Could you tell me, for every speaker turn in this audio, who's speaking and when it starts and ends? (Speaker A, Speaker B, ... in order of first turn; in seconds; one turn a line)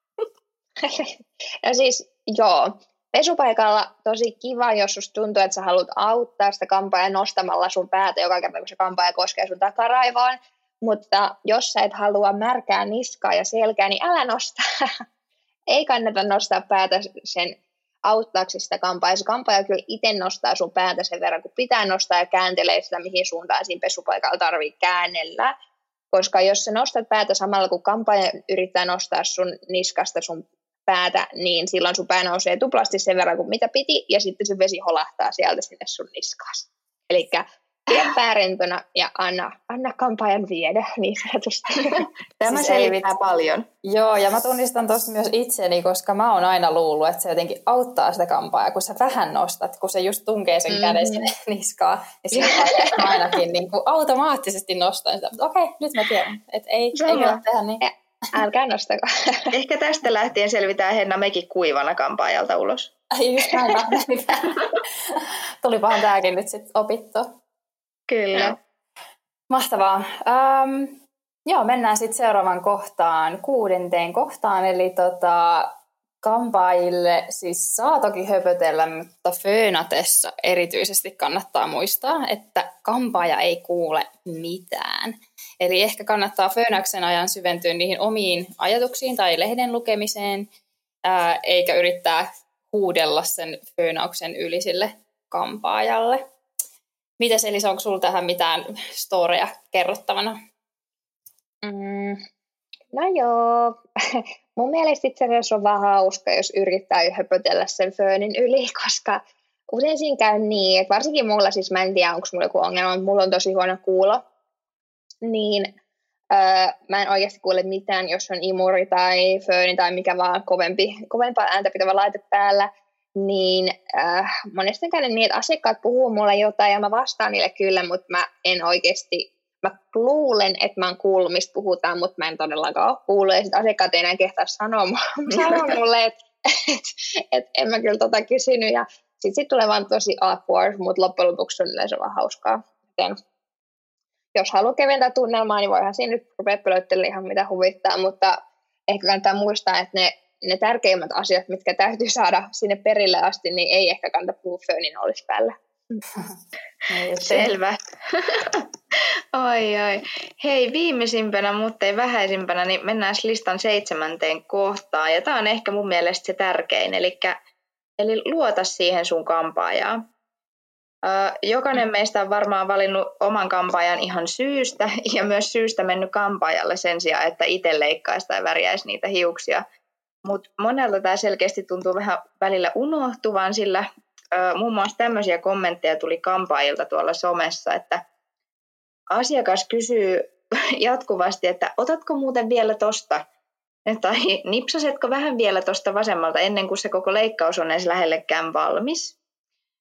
Speaker A: 0.8-14.6
Speaker A: 15.7-25.5
Speaker A: 26.1-42.1
Speaker B: 41.9-43.7
Speaker C: 42.5-43.1
Speaker C: 43.8-57.8
Speaker A: 50.7-51.3
Speaker A: 52.4-53.1
Speaker A: 57.0-59.5
Speaker B: 59.5-62.9
Speaker C: 63.1-67.4
Speaker B: 68.1-68.6
Speaker C: 69.5-90.5
Speaker C: 91.0-96.2
Speaker C: 97.2-100.4
Speaker A: 101.6-102.2
Speaker A: 102.9-109.2
Speaker A: 109.7-114.2
Speaker A: 115.2-115.7
Speaker A: 116.3-143.2
Speaker B: 135.4-135.6
Speaker A: 144.3-148.4
Speaker A: 148.9-155.5
Speaker C: 156.9-157.5
Speaker B: 157.2-158.7
Speaker B: 159.3-167.4
Speaker B: 168.0-170.0
Speaker B: 171.0-179.7
Speaker B: 180.2-188.0
Speaker B: 189.1-193.3
Speaker B: 193.9-199.2